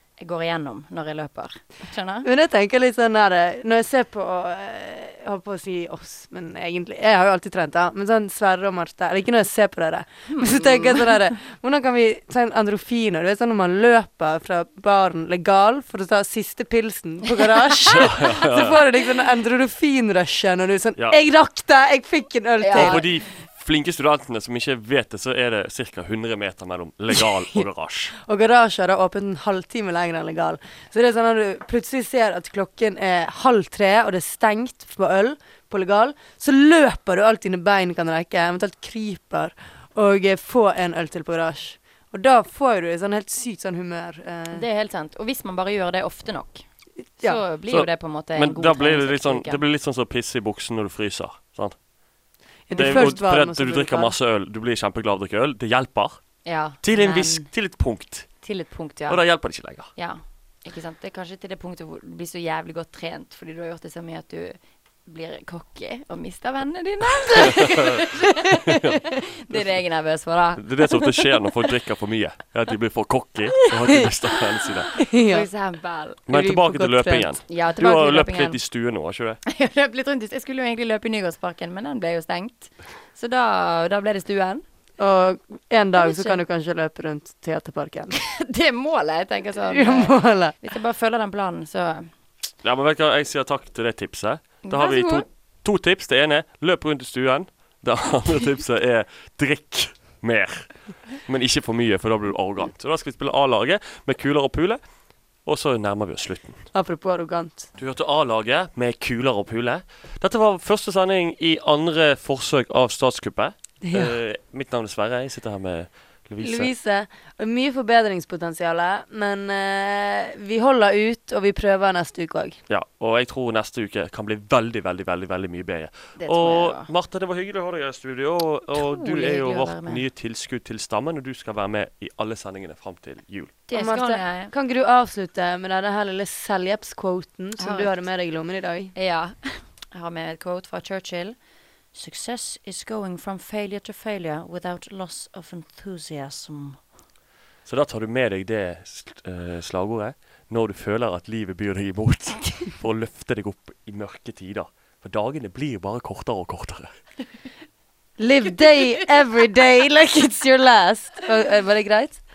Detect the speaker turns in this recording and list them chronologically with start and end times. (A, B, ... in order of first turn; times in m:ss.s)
0:00.2-0:02.3 A
0:02.2-0:23.0 B
0:10.3-0:11.1 A
0:17.9-0:18.8 C
0:22.6-0:23.1 A
0:22.8-0:28.1 C
0:28.2-0:44.6 B
0:44.5-0:46.6 A
0:47.2-0:49.6 A
0:47.7-0:51.8 C
0:52.7-0:54.1 B
0:52.8-0:56.2 C
0:56.4-0:57.5 A
0:56.8-0:58.3 C
0:58.4-0:59.2 A
0:59.1-0:59.9 C
0:59.9-1:11.3 A
1:07.4-1:08.0 C
1:08.6-1:09.7 C
1:10.6-1:14.9 C
1:15.0-1:16.3 A
1:15.0-1:15.5 B
1:16.3-1:19.4 C
1:16.3-1:17.4 B
1:17.5-1:18.6 A
1:19.5-1:24.6 A
1:25.0-1:28.2 B
1:26.0-1:26.4 A
1:28.1-1:32.1 A
1:29.7-1:30.6 B
1:32.6-1:44.8 C
1:34.6-1:35.3 A
1:45.4-1:46.6 C
1:46.7-1:47.7 B
1:47.8-1:56.7 C
1:53.8-1:54.1 B
1:56.4-2:02.6 B
2:02.7-2:13.6 C
2:06.2-2:06.9 A
2:08.7-2:10.0 A
2:13.7-2:14.5 A
2:13.7-2:18.9 B
2:17.6-2:17.9 A
2:19.0-2:21.4 A
2:21.9-2:26.8 A
2:27.6-2:36.9 C
2:38.2-2:42.2 B